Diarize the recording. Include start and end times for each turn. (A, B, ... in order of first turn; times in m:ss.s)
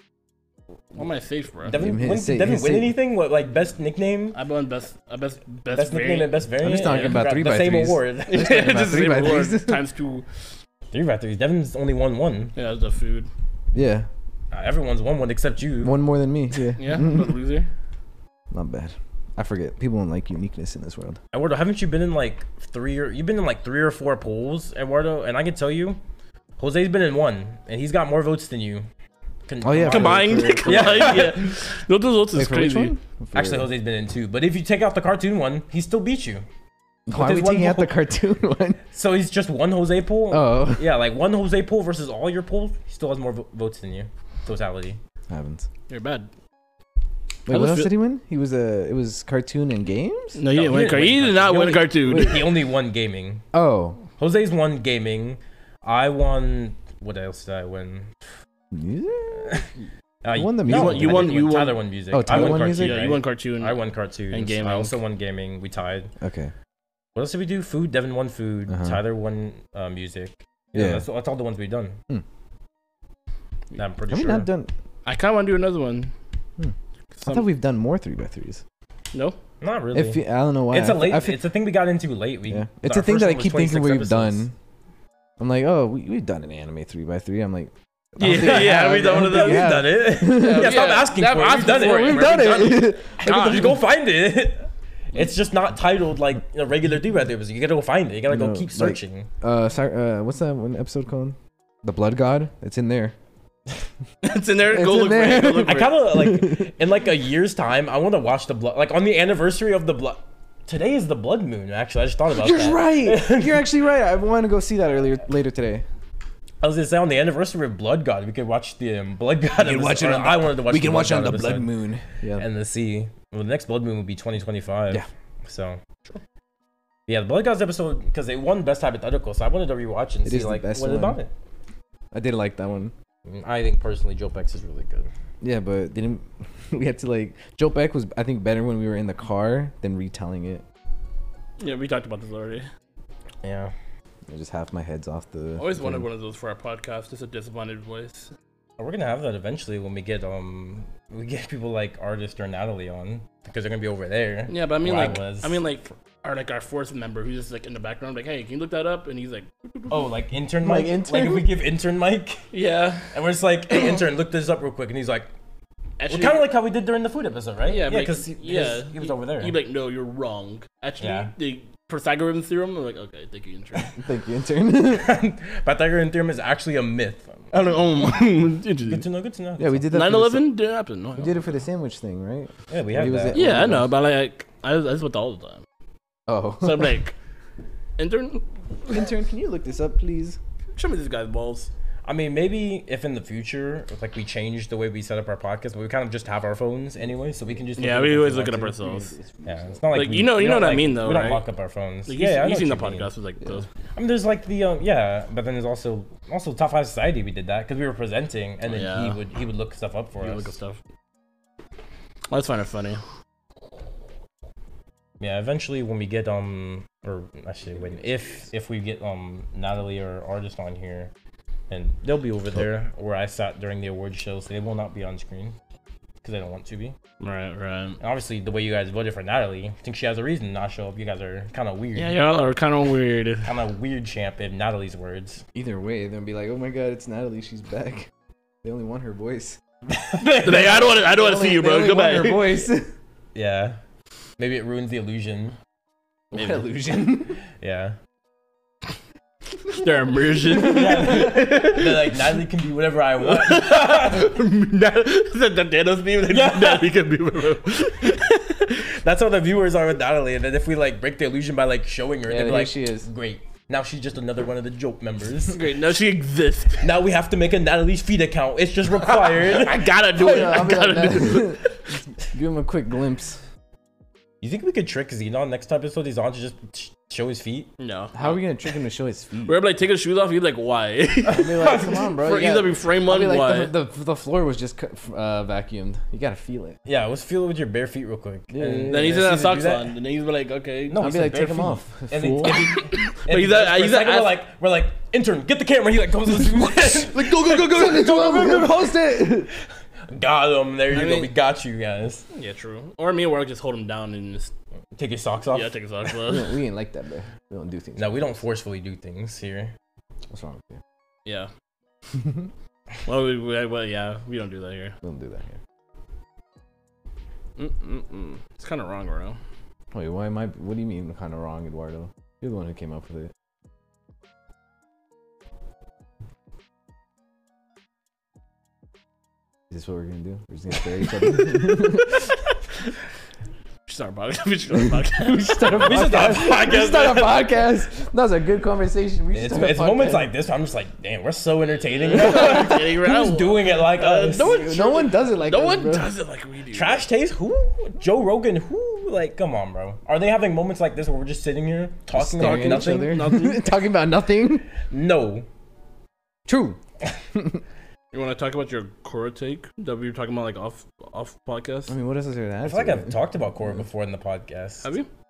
0:01.0-0:01.8 A
0:01.7-0:04.4 B
0:01.7-0:03.0 C
0:04.3-0:07.2 A
0:05.8-0:08.8 B
0:06.6-0:09.8 C
0:08.3-0:10.2 A
0:10.9-0:12.5 B
0:12.6-0:13.3 A
0:13.7-0:14.1 C
0:14.5-0:16.0 B
0:15.8-0:17.3 C
0:16.8-0:17.7 A
0:18.5-0:21.2 C
0:21.3-0:26.0 B
0:26.6-0:28.8 B
0:29.5-0:31.5 B
0:29.6-0:31.3 C
0:29.9-0:32.9 A
0:32.3-0:33.7 C
0:33.4-0:36.4 B
0:37.1-0:38.8 C
0:37.1-0:38.0 B
0:38.9-0:45.0 B
0:40.3-0:41.0 C
0:45.3-0:45.7 C
0:45.9-0:46.3 A
0:47.5-0:50.4 C
0:47.5-0:48.0 A
0:50.4-0:52.5 A
0:50.5-0:53.4 B
0:52.1-0:52.5 C
0:53.5-0:54.0 C
0:54.2-0:58.1 B
0:58.7-0:59.6 C
1:00.2-1:06.1 B
1:00.3-1:01.4 C
1:00.7-1:03.8 A
1:02.1-1:03.0 C
1:04.3-1:05.0 A
1:06.2-1:06.5 C
1:07.2-1:12.0 B
1:08.7-1:09.0 C
1:10.7-1:11.1 C
1:13.7-1:14.5 B
1:14.1-1:14.7 C
1:15.1-1:16.1 A
1:17.2-1:17.5 A
1:17.2-1:18.6 C
1:19.6-1:24.5 B
1:19.9-1:21.4 C
1:22.5-1:24.5 C
1:25.4-1:33.8 C
1:28.2-1:29.7 A
1:28.2-1:39.3 B
1:30.3-1:33.8 A
1:38.3-1:43.2 C
1:44.2-1:45.9 A
1:44.7-1:46.7 C
1:45.6-1:53.6 B
1:52.3-1:55.8 C
1:56.6-2:01.7 B
1:59.6-2:02.5 C
2:02.4-2:05.8 B
2:07.1-2:11.3 B
2:10.2-2:11.2 C
2:12.1-2:12.9 C
2:13.3-2:15.1 B
2:15.4-2:20.6 C
2:21.6-2:22.7 A
2:23.4-2:23.7 B
2:24.3-2:26.1 C
2:25.6-2:28.3 A
2:28.8-2:35.6 B
2:34.5-2:39.9 A
2:39.9-2:42.4 B
2:40.6-2:41.6 C
2:42.5-2:43.1 A
2:43.1-2:45.3 B
2:46.0-2:46.4 A
2:46.1-2:49.5 B
2:47.7-2:53.9 A
2:51.0-2:51.3 B
2:54.0-2:55.2 C
2:54.8-2:57.7 B
2:57.5-2:59.0 A
2:58.9-2:59.8 B
2:59.6-3:00.6 C
2:59.9-3:01.4 A
3:01.2-3:03.9 C
3:02.7-3:03.5 B
3:03.3-3:05.6 A
3:06.3-3:07.0 C
3:06.6-3:07.1 A
3:08.0-3:08.5 A
3:08.9-3:10.4 C
3:10.8-3:11.7 A
3:12.0-3:23.1 B
3:17.8-3:19.1 A
3:19.2-3:19.5 C
3:19.9-3:21.4 A
3:22.1-3:23.7 A
3:24.0-3:30.5 B
3:28.7-3:29.2 A
3:30.2-3:30.8 A
3:32.3-3:33.0 A
3:35.2-3:41.1 B
3:41.7-3:45.6 B
3:46.2-3:47.0 B
3:47.2-3:48.0 A
3:48.0-3:52.2 B
3:52.0-3:53.5 A
3:53.4-3:55.4 B
3:55.6-3:58.1 C
3:58.6-3:59.6 C
4:00.0-4:01.0 B
4:00.4-4:02.6 A
4:00.4-4:02.9 C
4:03.4-4:03.8 B
4:04.4-4:05.6 B
4:06.3-4:07.4 C
4:06.4-4:06.6 A
4:07.6-4:08.0 B
4:09.7-4:12.1 A
4:10.5-4:11.7 C
4:10.5-4:14.4 B
4:13.3-4:18.7 A
4:16.3-4:16.9 B
4:18.8-4:25.6 B
4:22.3-4:23.1 C
4:25.5-4:26.8 A
4:26.8-4:29.9 B
4:29.0-4:31.8 A
4:30.1-4:31.6 C
4:32.2-4:33.4 C
4:34.4-4:37.7 B
4:37.8-4:38.4 A
4:38.1-4:39.6 C
4:39.5-4:41.7 A
4:41.3-4:42.2 B
4:41.3-4:46.8 C
4:42.2-4:43.7 A
4:46.9-4:49.9 B
4:48.5-4:49.5 C
4:48.9-4:51.1 A
4:50.9-4:59.4 B
4:51.0-4:52.7 C
4:52.4-4:54.4 A
4:56.6-4:59.5 C
4:57.1-4:58.0 A
5:00.1-5:02.2 B
5:00.9-5:01.3 A
5:02.3-5:04.5 A
5:05.0-5:05.7 B
5:05.5-5:06.5 A
5:06.2-5:08.4 C
5:08.0-5:09.7 B
5:10.3-5:10.8 C
5:13.1-5:15.0 A
5:15.0-5:15.6 C
5:17.6-5:19.4 A
5:19.9-5:23.3 C
5:29.7-5:32.3 C
5:31.4-5:32.0 A
5:33.9-5:36.0 A
5:35.2-5:40.3 C
5:35.7-5:37.7 B
5:39.3-5:44.6 B
5:42.0-5:47.1 A
5:44.2-5:46.1 C
5:46.7-5:53.3 B
5:52.1-5:54.7 C
5:52.4-5:53.7 A
5:54.9-5:55.5 B
5:56.5-5:56.8 C
5:57.3-5:57.6 C
5:58.1-6:01.9 A
6:01.9-6:03.2 C
6:02.6-6:04.9 B
6:04.8-6:05.1 A